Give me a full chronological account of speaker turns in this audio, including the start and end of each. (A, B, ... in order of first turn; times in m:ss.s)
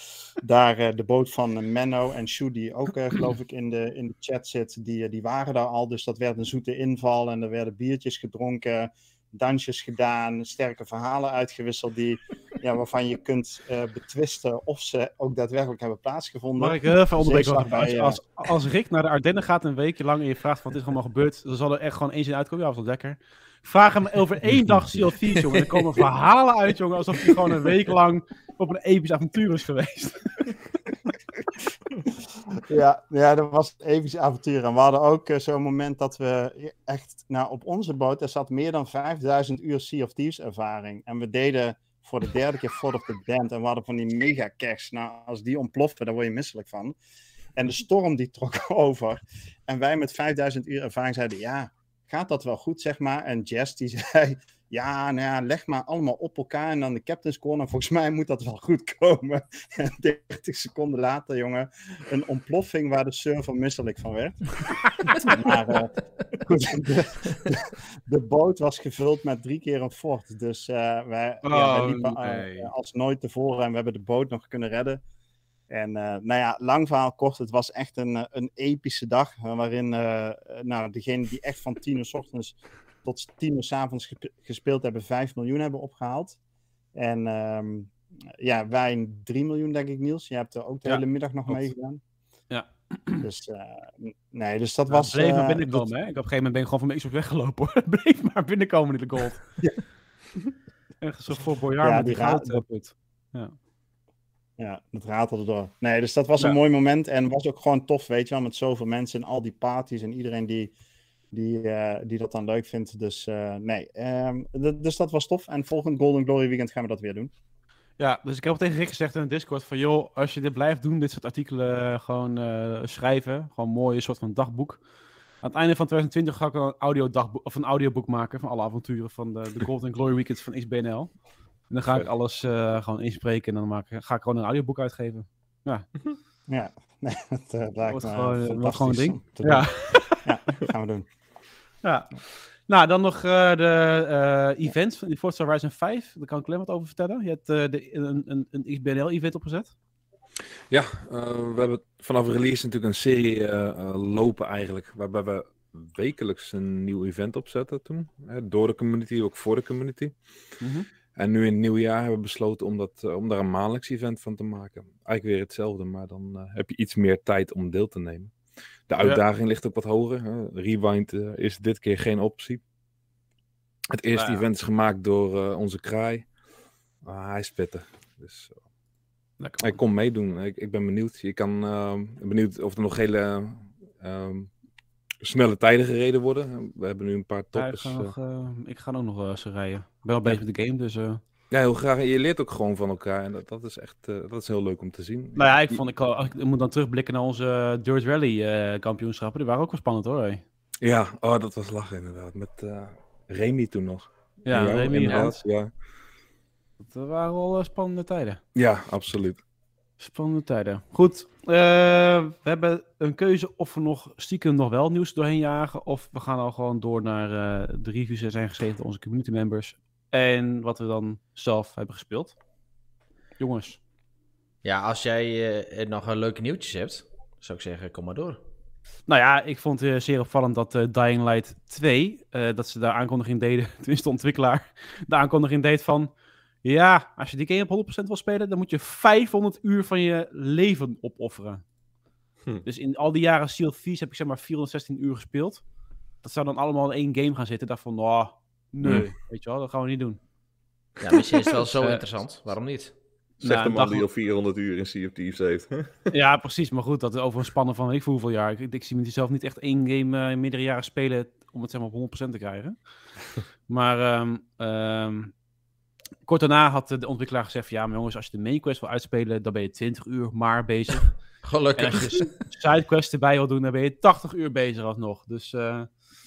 0:00.4-0:18.2 A
0:16.6-0:30.6 B
0:25.5-0:25.9 C
0:32.6-0:47.0 A
0:47.6-1:04.5 A
1:05.2-1:15.0 A
1:11.4-1:12.7 B
1:15.7-1:26.4 A
1:26.9-1:32.0 A
1:30.9-1:31.7 B
1:32.5-1:33.3 B
1:33.2-1:35.9 A
1:34.9-1:39.4 B
1:41.0-1:43.5 B
1:41.8-1:42.6 A
1:44.6-1:50.7 A
1:51.3-1:57.3 A
1:58.0-2:04.8 B
2:05.4-2:11.2 B
2:11.7-2:15.9 B
2:16.5-2:21.1 A
2:17.9-2:20.2 B
2:21.8-2:29.7 B
2:30.7-2:40.2 D
2:40.6-2:40.9 B
2:41.2-2:48.4 D
2:48.9-2:52.6 D
2:49.0-2:49.2 B
2:53.9-2:56.3 D
2:54.2-2:54.4 B
2:57.0-2:58.6 D
2:59.4-2:59.8 B
2:59.6-3:04.5 D
3:05.2-3:08.1 D
3:07.5-3:11.2 B
3:11.5-3:15.8 D
3:15.4-3:20.4 B
3:20.8-3:25.7 D
3:24.5-3:25.4 B
3:26.8-3:28.4 B
3:28.6-3:29.4 D
3:30.0-3:42.4 B
3:43.4-3:43.8 B
3:44.6-3:48.4 C
3:49.1-3:56.1 B
3:56.6-4:01.6 B
4:02.6-4:05.6 B
4:06.2-4:10.2 B
4:08.8-4:09.1 D
4:11.0-4:13.0 C
4:11.7-4:12.0 B
4:13.4-4:16.0 E
4:13.4-4:14.0 B
4:16.1-4:22.8 B
4:23.7-4:25.3 B
4:26.3-4:31.1 B
4:31.4-4:32.4 C
4:31.8-4:35.9 B